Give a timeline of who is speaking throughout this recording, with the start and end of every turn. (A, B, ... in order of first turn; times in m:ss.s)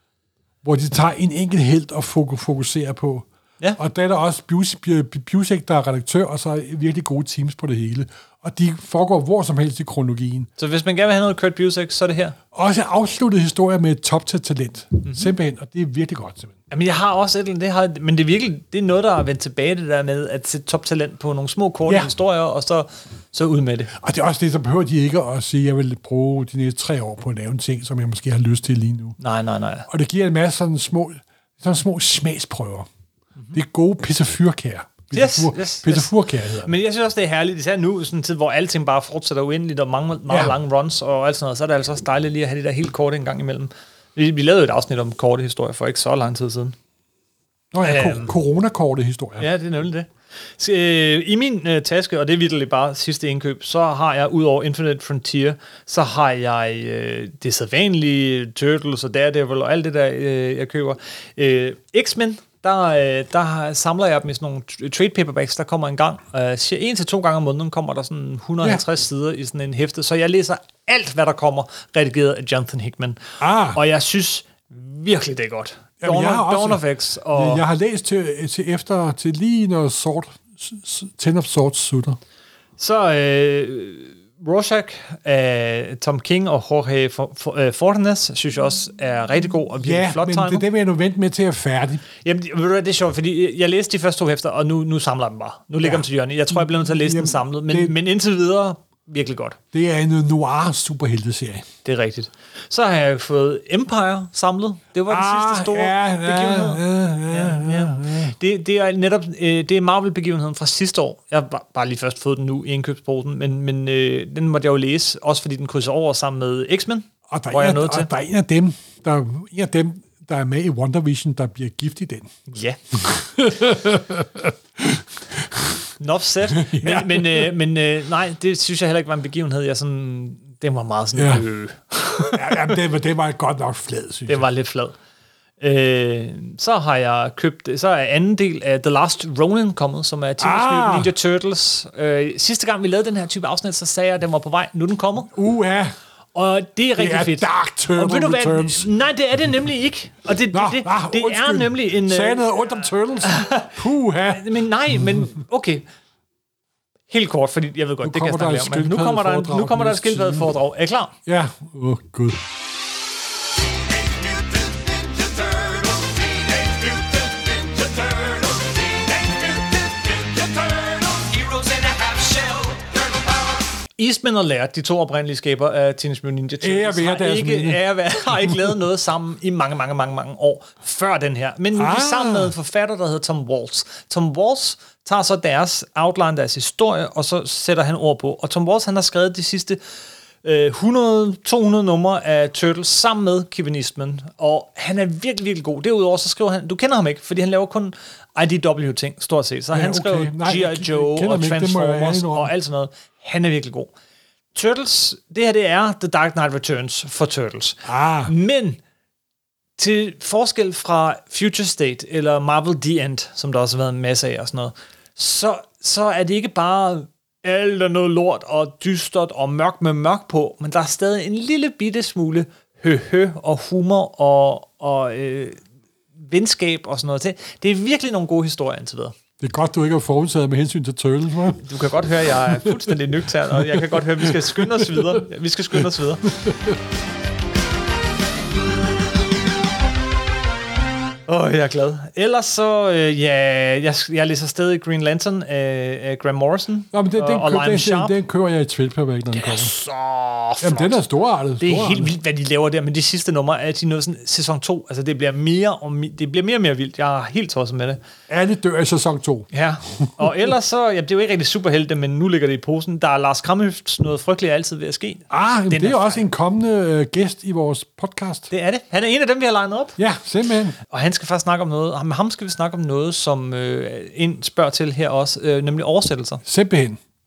0:00.6-0:10.5 A
0:10.6-0:12.4 B
0:12.5-0:16.6 A
0:15.0-0:15.3 B
0:16.7-0:23.9 B
0:21.9-0:22.1 A
0:24.0-0:29.2 A
0:29.2-0:29.9 B
0:29.9-0:32.9 A
0:33.5-0:36.7 A
0:35.1-0:36.1 B
0:36.6-0:46.7 B
0:40.3-0:40.6 A
0:47.7-0:49.5 A
0:47.8-0:48.3 B
0:49.4-1:13.2 B
1:13.4-1:13.8 A
1:13.7-1:17.6 B
1:16.0-1:22.2 A
1:22.8-1:30.6 B
1:29.8-1:32.0 A
1:32.2-1:39.6 B
1:35.8-1:37.9 A
1:39.7-1:41.6 A
1:41.8-1:58.1 B
1:45.1-1:48.3 A
1:57.3-2:02.3 A
2:02.5-2:02.8 B
2:03.0-2:05.8 A
2:06.0-2:12.7 B
2:06.5-2:07.5 A
2:11.1-2:11.4 A
2:12.3-2:14.4 A
2:14.3-2:14.9 B
2:15.6-2:25.3 B
2:20.4-2:21.1 A
2:25.3-2:25.9 A
2:26.3-2:32.5 B
2:27.0-2:28.9 A
2:30.5-2:35.3 A
2:33.2-2:33.7 B
2:34.3-2:35.8 B
2:37.1-2:41.1 B
2:38.0-2:40.6 A
2:41.2-2:42.4 A
2:44.2-2:53.3 C
2:54.0-3:09.8 B
2:56.6-2:57.8 A
3:01.8-3:02.5 A
3:10.4-3:23.9 B
3:19.7-3:22.5 A
3:24.5-3:28.8 B
3:27.8-3:28.3 A
3:29.8-3:45.6 B
3:46.2-3:49.1 B
3:49.4-3:51.6 A
3:51.6-3:56.4 B
3:52.5-3:52.9 A
3:53.5-3:55.2 A
3:56.3-3:56.8 A
4:01.3-4:08.1 B
4:06.9-4:09.7 A
4:09.3-4:11.0 B
4:10.6-4:12.1 A
4:11.6-4:18.0 B
4:18.3-4:19.5 A
4:19.5-4:26.2 B
4:20.0-4:20.3 A
4:25.3-4:28.5 A
4:28.5-4:30.0 B
4:30.0-4:30.8 A
4:30.9-4:36.4 B
4:36.4-4:37.0 A